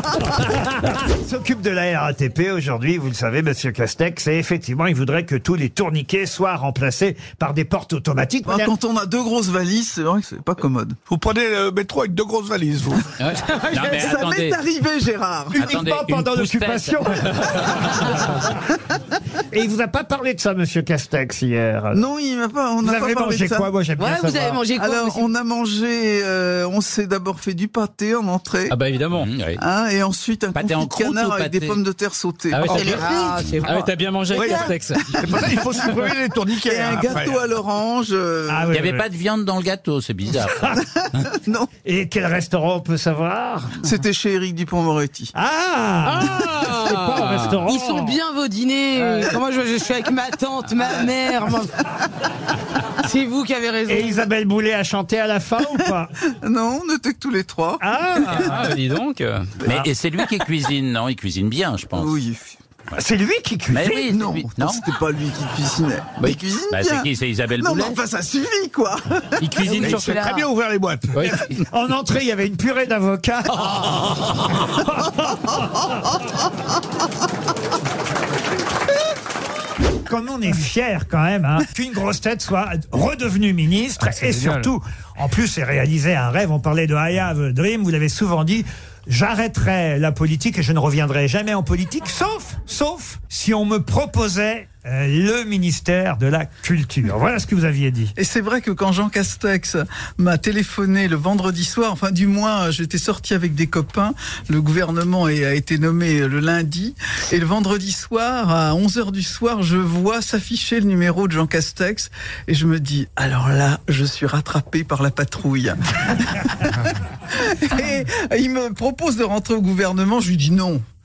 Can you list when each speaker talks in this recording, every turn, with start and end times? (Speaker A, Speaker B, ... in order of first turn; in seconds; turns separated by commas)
Speaker A: 0.3-8.7, Speaker B: 8.4-11.0, Speaker C: 11.1-13.3, Speaker D: 13.2-14.6, Speaker B: 13.9-15.7, Speaker A: 15.5-18.4, Speaker D: 15.6-17.8, Speaker A: 19.5-22.0, Speaker B: 21.9-23.7, Speaker A: 22.8-24.6, Speaker E: 24.0-25.3, Speaker B: 24.7-28.8, Speaker F: 28.7-29.3, Speaker D: 29.2-29.6, Speaker B: 29.6-33.1, Speaker D: 30.5-31.8, Speaker F: 32.5-35.2, Speaker E: 33.1-33.5, Speaker B: 35.1-35.9, Speaker C: 35.1-37.4, Speaker B: 36.5-38.8, Speaker A: 38.5-39.0, Speaker D: 38.7-40.6, Speaker B: 41.4-41.7, Speaker A: 41.8-43.8, Speaker B: 43.8-45.3, Speaker A: 45.3-48.2, Speaker E: 47.6-51.7, Speaker E: 53.1-54.2, Speaker A: 53.9-56.1, Speaker B: 56.4-58.7, Speaker A: 57.8-58.6, Speaker F: 58.5-59.2, Speaker D: 59.6-62.1, Speaker B: 59.6-59.9, Speaker B: 61.9-62.5, Speaker A: 62.9-63.9, Speaker D: 63.7-64.8, Speaker B: 63.8-70.0, Speaker D: 66.2-68.0, Speaker F: 69.5-70.1, Speaker C: 69.6-71.3, Speaker E: 69.9-70.3, Speaker F: 71.1-71.4, Speaker A: 71.2-75.9, Speaker A: 80.0-98.1, Speaker B: 98.2-120.8